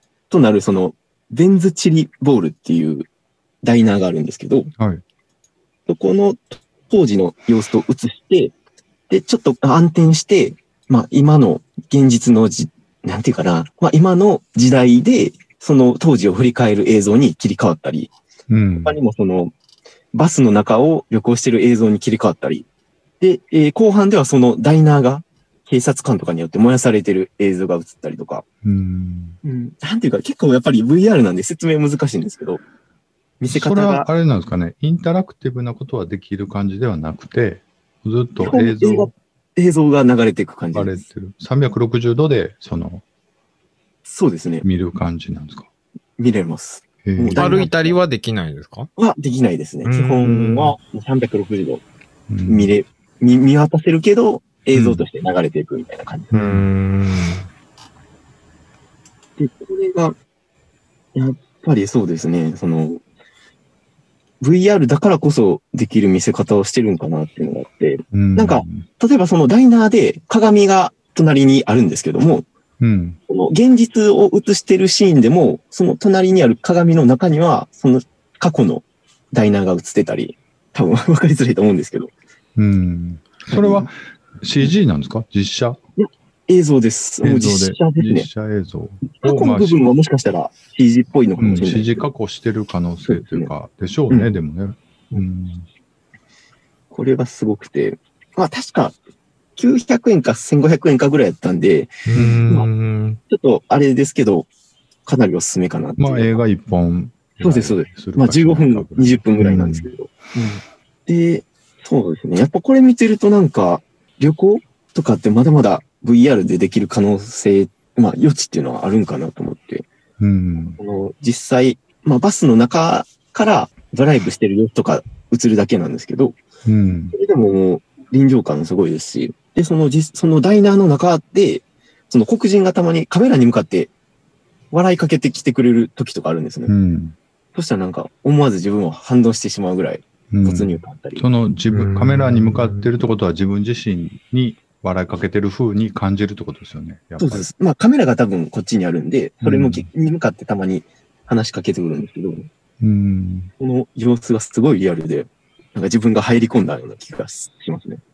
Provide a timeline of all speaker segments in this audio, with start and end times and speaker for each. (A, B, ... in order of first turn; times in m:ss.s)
0:00.3-0:03.1 A
0:03.6-0:04.7 A
0:04.8-0:05.0 B
0:05.9-0:08.5 A
0:09.1-0:18.1 A
0:18.5-0:19.0 B
0:18.8-0:19.5 A
0:20.1-0:22.7 A
0:23.2-0:28.4 A
0:28.6-0:29.4 B
0:29.4-0:32.6 A
0:33.4-0:34.1 A
0:33.5-0:39.1 B
0:38.4-0:41.0 A
0:40.7-0:43.0 B
0:44.1-0:44.6 A
0:44.6-0:45.7 B
0:46.2-0:48.0 A
0:47.0-0:47.6 B
0:47.4-0:48.9 C
0:49.0-0:51.8 A
0:49.8-0:50.8 C
0:52.3-0:52.7 B
0:52.5-0:56.6 A
0:56.3-0:57.5 C
0:59.4-1:00.2 A
1:01.2-1:03.0 A
1:04.4-1:12.5 A
1:08.1-1:08.8 B
1:12.8-1:13.2 B
1:13.3-1:22.1 A
1:22.6-1:25.8 B
1:23.5-1:23.9 A
1:26.0-1:28.3 A
1:27.2-1:29.9 B
1:29.1-1:32.0 A
1:31.4-1:35.7 B
1:33.1-1:33.5 A
1:36.9-1:39.0 A
1:39.6-1:42.7 A
1:42.1-1:43.2 C
1:42.2-1:42.4 B
1:43.3-1:44.5 A
1:45.1-1:46.4 A
1:46.0-1:49.9 B
1:47.4-1:59.9 A
2:00.2-2:00.8 B
2:00.8-2:06.4 A
2:06.7-2:07.2 B
2:07.1-2:13.9 A
2:14.7-2:16.7 A
2:16.7-2:17.2 B
2:17.5-2:21.3 A
2:20.3-2:27.5 B
2:21.7-2:22.9 C
2:27.2-2:32.5 A
2:29.4-2:29.9 B
2:32.8-2:33.5 B
2:33.6-2:38.0 A